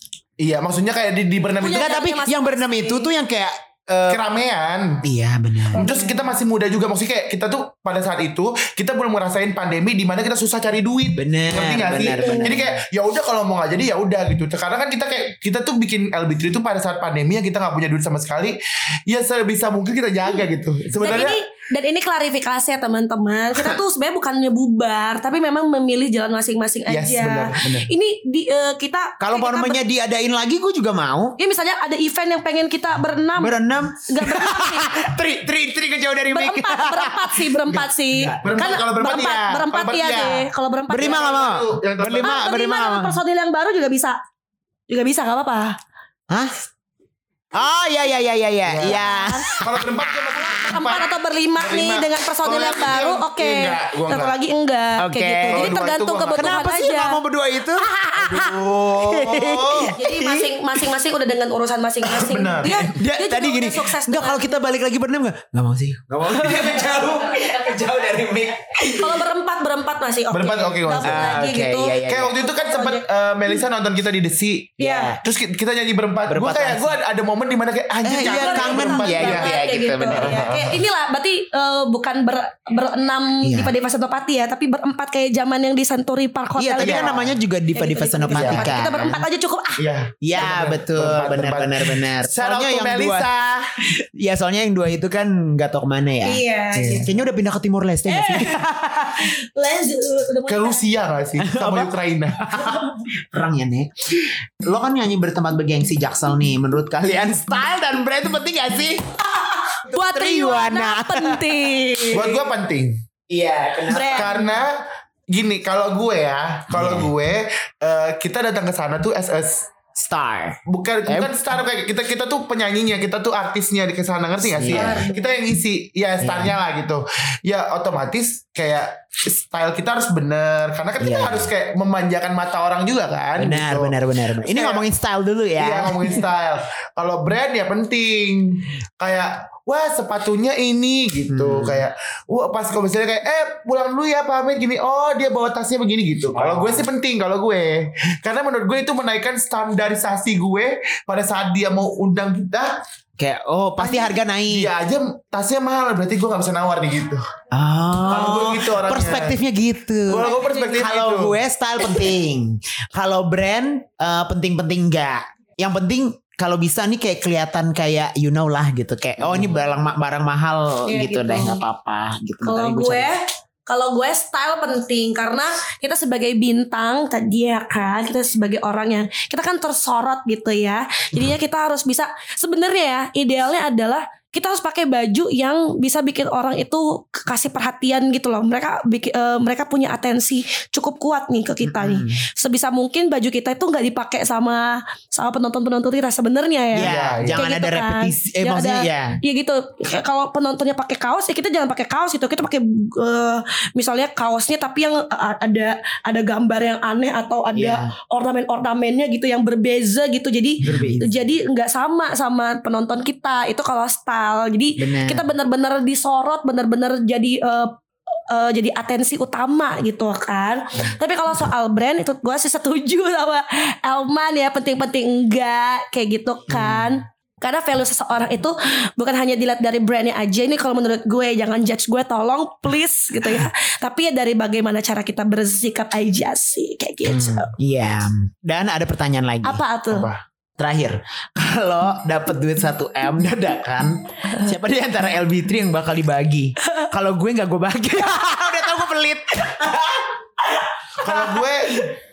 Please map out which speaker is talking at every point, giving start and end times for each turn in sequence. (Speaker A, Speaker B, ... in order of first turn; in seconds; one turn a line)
Speaker A: 0.4-2.0
Speaker B: 1.6-3.1
Speaker C: 1.6-4.2
Speaker A: 4.1-5.0
Speaker C: 5.0-5.8
Speaker A: 5.7-21.4
Speaker B: 5.7-6.3
Speaker C: 11.2-12.8
Speaker B: 12.2-12.6
Speaker B: 21.0-29.8
Speaker A: 26.9-27.9
Speaker C: 29.2-31.4
Speaker B: 31.4-35.0
Speaker C: 33.4-38.4
Speaker B: 36.3-41.5
Speaker A: 38.4-42.3
Speaker C: 40.9-43.2
Speaker B: 42.2-44.2
Speaker B: 44.9-45.8
Speaker C: 46.3-46.6
Speaker C: 47.5-49.6
Speaker A: 48.6-54.4
Speaker B: 48.9-49.5
Speaker B: 50.5-57.2
Speaker C: 55.0-55.7
Speaker A: 55.5-56.5
Speaker C: 56.3-60.8
Speaker B: 57.8-58.5
Speaker A: 58.1-59.9
Speaker B: 59.8-64.5
Speaker A: 62.0-62.8
Speaker C: 62.6-69.2
Speaker B: 68.9-73.6
Speaker A: 70.3-71.4
Speaker C: 71.0-72.4
Speaker A: 72.0-79.5
Speaker B: 74.8-75.2
Speaker C: 74.8-75.2
Speaker C: 76.3-77.0
Speaker C: 78.0-80.5
Speaker B: 78.2-90.5
Speaker A: 80.1-80.8
Speaker C: 83.4-83.7
Speaker C: 86.5-89.2
Speaker A: 86.8-87.4
Speaker A: 88.3-88.8
Speaker A: 89.8-93.6
Speaker C: 90.2-93.3
Speaker C: 94.0-99.2
Speaker B: 96.2-97.2
Speaker B: 98.1-100.8
Speaker A: 100.5-102.4
Speaker C: 101.4-109.0
Speaker C: 109.7-112.2
Speaker B: 109.7-112.4
Speaker A: 112.1-113.0
Speaker C: 113.3-114.4
Speaker B: 113.9-114.6
Speaker A: 113.9-119.7
Speaker C: 116.7-117.1
Speaker C: 119.9-121.3
Speaker A: 120.7-134.8
Speaker C: 124.4-125.0
Speaker B: 124.7-125.4
Speaker C: 126.2-126.5
Speaker C: 131.0-131.5
Speaker C: 133.3-136.1
Speaker A: 135.6-152.7
Speaker C: 141.3-141.8
Speaker C: 146.3-146.8
Speaker C: 153.2-154.7
Speaker A: 153.8-157.2
Speaker C: 157.5-173.1
Speaker A: 158.1-159.4
Speaker A: 160.1-161.4
Speaker B: 160.2-160.8
Speaker A: 169.2-169.6
Speaker B: 170.8-171.6
Speaker B: 172.4-217.8
Speaker C: 191.6-192.2
Speaker C: 196.7-199.2
Speaker A: 196.8-197.4
Speaker C: 207.5-207.9
Speaker A: 210.6-210.9
Speaker C: 210.6-211.2
Speaker C: 214.8-215.2
Speaker B: 218.3-237.5
Speaker C: 226.5-226.9
Speaker C: 237.1-239.6
Speaker B: 239.4-240.1
Speaker A: 239.9-240.2
Speaker C: 240.6-250.1
Speaker A: 251.0-251.9
Speaker C: 251.1-251.4